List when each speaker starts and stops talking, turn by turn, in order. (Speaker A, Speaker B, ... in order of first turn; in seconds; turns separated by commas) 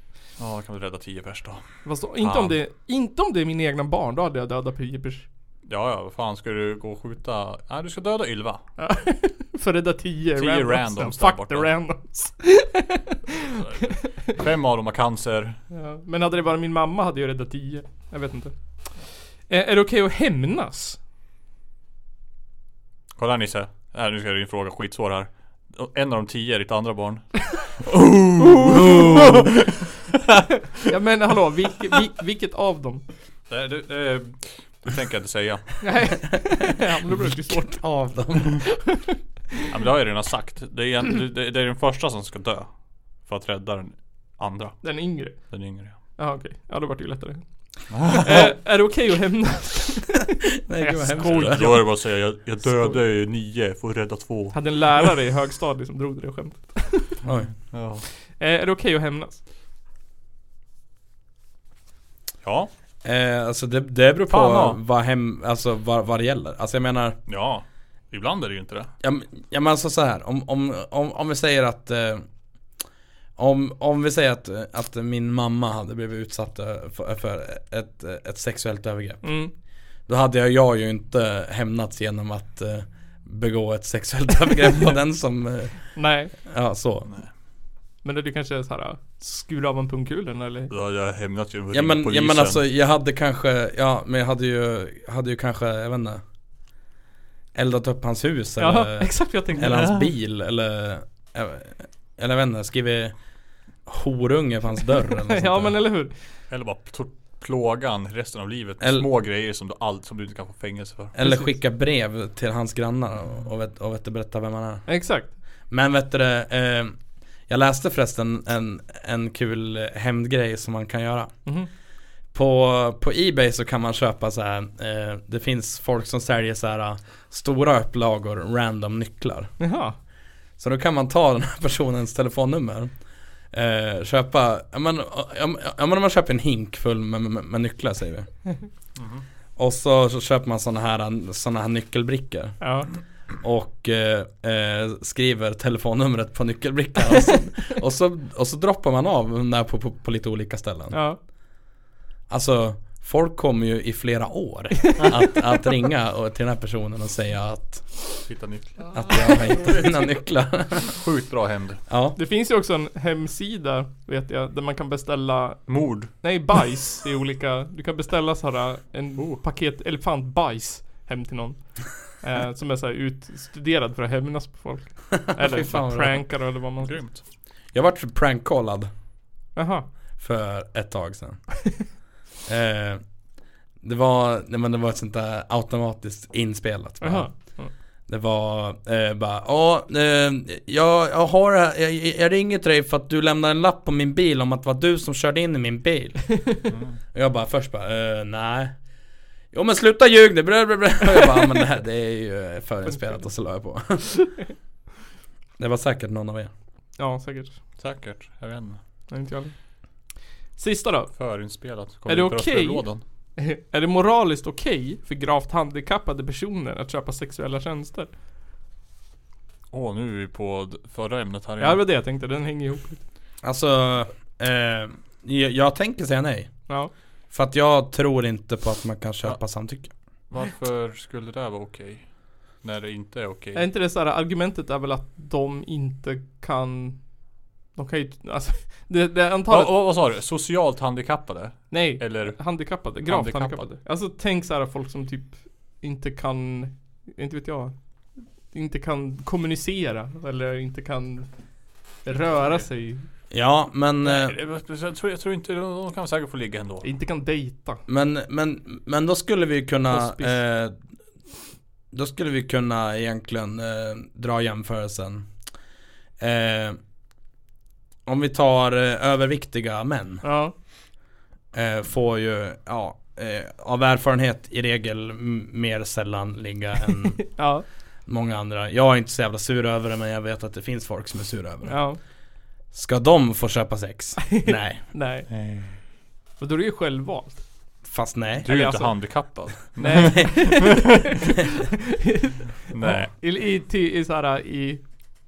Speaker A: 0.4-2.6, Speaker B: 1.9-5.2, Speaker A: 5.7-8.6, Speaker B: 8.8-13.2, Speaker A: 10.4-11.7, Speaker A: 13.6-15.6, Speaker B: 15.7-18.6, Speaker B: 19.5-21.0, Speaker A: 23.2-29.7, Speaker B: 30.9-33.0, Speaker A: 33.5-35.8, Speaker B: 35.8-37.8, Speaker C: 37.1-38.7, Speaker A: 39.7-46.0, Speaker B: 44.8-50.3, Speaker A: 47.9-48.5, Speaker C: 50.7-51.9, Speaker B: 50.8-52.0, Speaker A: 51.2-54.9, Speaker B: 52.6-53.0, Speaker B: 54.5-57.2, Speaker C: 57.2-57.5, Speaker A: 57.7-58.0, Speaker B: 58.4-59.4, Speaker A: 62.4-62.7, Speaker C: 63.0-67.2, Speaker A: 64.3-64.8, Speaker A: 67.3-68.9, Speaker C: 69.0-72.3, Speaker C: 73.4-79.3, Speaker B: 79.2-79.5, Speaker C: 80.1-87.1, Speaker B: 86.0-86.3, Speaker B: 88.0-90.7, Speaker A: 90.7-92.6, Speaker C: 91.7-96.2, Speaker C: 97.5-103.2, Speaker B: 98.6-99.9, Speaker A: 99.6-100.1, Speaker C: 103.9-105.8, Speaker B: 105.3-106.1, Speaker A: 106.5-111.1, Speaker C: 108.8-109.1, Speaker C: 111.1-114.9, Speaker B: 111.2-111.6, Speaker B: 114.9-115.3, Speaker C: 115.7-117.0, Speaker C: 117.5-121.3, Speaker C: 122.3-129.5, Speaker B: 129.6-130.0, Speaker C: 130.6-132.9, Speaker C: 133.5-138.3, Speaker A: 139.0-139.2, Speaker C: 139.6-142.7, Speaker B: 142.6-142.9, Speaker C: 143.4-151.0, Speaker B: 150.9-151.2, Speaker C: 152.3-158.2, Speaker A: 158.3-159.7, Speaker C: 158.9-160.9, Speaker A: 160.9-161.8, Speaker C: 161.9-162.2, Speaker B: 162.2-177.0, Speaker A: 165.7-166.1, Speaker A: 169.2-169.4, Speaker C: 175.3-176.2, Speaker A: 176.8-177.2, Speaker C: 177.7-178.9, Speaker B: 179.6-179.9, Speaker C: 180.2-181.6, Speaker C: 182.5-183.0, Speaker C: 183.8-187.5, Speaker B: 187.0-187.7, Speaker C: 188.1-196.6, Speaker A: 196.7-197.0, Speaker C: 197.1-198.8, Speaker C: 199.5-204.3, Speaker B: 202.9-203.2, Speaker C: 205.6-206.5, Speaker B: 207.0-207.6, Speaker A: 207.8-208.8, Speaker B: 209.1-209.5, Speaker B: 210.6-211.2, Speaker A: 211.2-213.0, Speaker B: 212.1-218.1, Speaker A: 219.7-221.8, Speaker B: 221.6-223.0, Speaker C: 223.4-226.5, Speaker C: 227.3-229.9, Speaker A: 230.3-232.1, Speaker A: 232.6-233.7, Speaker B: 233.6-237.0, Speaker B: 237.7-239.7, Speaker A: 239.5-243.6, Speaker B: 241.7-247.8, Speaker B: 248.5-251.3, Speaker B: 252.0-253.1, Speaker C: 253.3-254.3, Speaker A: 254.0-256.9, Speaker B: 256.8-257.8, Speaker C: 257.9-260.8, Speaker B: 259.9-260.3, Speaker C: 261.9-265.3, Speaker C: 266.2-266.8, Speaker C: 268.1-270.2, Speaker B: 270.2-270.5, Speaker C: 271.5-277.3, Speaker B: 277.4-277.6, Speaker C: 278.1-281.8, Speaker B: 281.6-282.0, Speaker C: 282.7-284.8, Speaker B: 284.4-285.3, Speaker A: 285.3-285.8, Speaker B: 286.4-287.4, Speaker C: 287.8-288.5, Speaker A: 288.4-291.0, Speaker B: 288.5-289.1, Speaker B: 289.8-290.9, Speaker C: 289.9-290.3, Speaker B: 292.0-294.8, Speaker A: 292.7-293.1